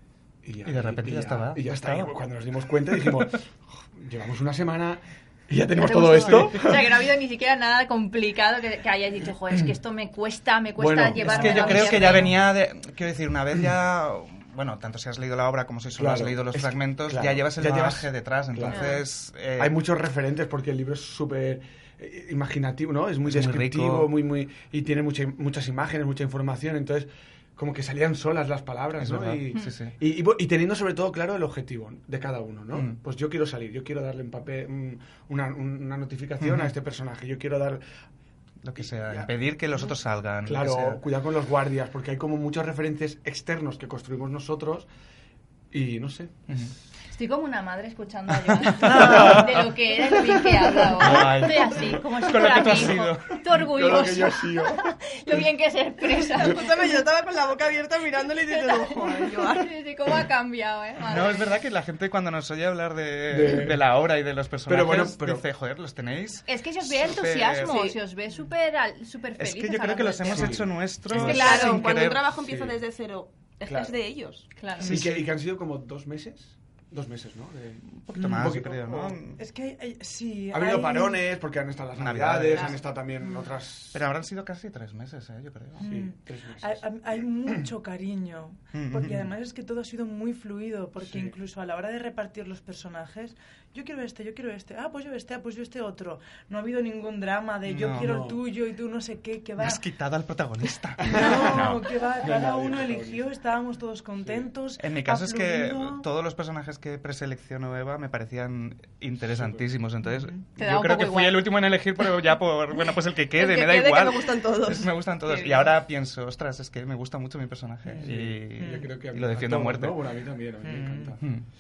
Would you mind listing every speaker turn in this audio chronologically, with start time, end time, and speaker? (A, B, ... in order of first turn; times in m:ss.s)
0:00.4-0:06.8 A
0:00.6-0:02.2 B
0:02.9-0:03.3 B
0:05.8-0:12.3 C
0:10.8-0:12.3 A
0:11.2-0:19.8 B
0:16.0-0:18.9 A
0:19.6-0:37.8 A
0:23.2-0:24.1 B
0:29.0-0:30.0 B
0:32.7-0:33.0 B
0:36.4-0:36.7 B
0:38.6-0:41.0 B
0:38.8-0:39.3 A
0:40.4-0:44.9 A
0:45.7-0:46.6 A
0:47.1-0:56.7 C
0:48.8-0:49.4 B
0:51.0-0:53.4 B
0:53.5-0:55.0 A
0:56.4-0:59.7 D
0:58.5-1:01.4 C
1:01.1-1:07.8 B
1:03.3-1:03.8 A
1:04.7-1:05.4 A
1:06.5-1:10.5 C
1:09.4-1:12.3 B
1:10.3-1:11.8 A
1:11.1-1:14.5 D
1:12.4-1:12.7 A
1:13.7-1:13.9 A
1:14.6-1:14.9 C
1:14.8-1:19.2 A
1:14.8-1:15.2 B
1:17.9-1:19.4 B
1:18.2-1:18.5 E
1:19.3-1:21.2 E
1:20.5-1:24.0 A
1:21.9-1:22.9 B
1:23.9-1:25.8 B
1:25.8-1:39.8 E
1:25.8-1:27.6 A
1:28.7-1:29.3 B
1:31.0-1:31.4 A
1:37.7-1:38.2 B
1:37.9-1:38.4 A
1:39.6-1:41.8 B
1:41.0-1:43.3 A
1:41.0-1:46.0 E
1:44.2-1:44.5 A
1:44.8-2:00.3 B
1:49.3-1:49.6 A
1:50.6-1:51.5 C
1:53.4-1:54.9 D
1:55.3-1:55.8 C
1:57.9-1:58.9 E
1:58.0-2:01.2 A
2:00.6-2:01.2 E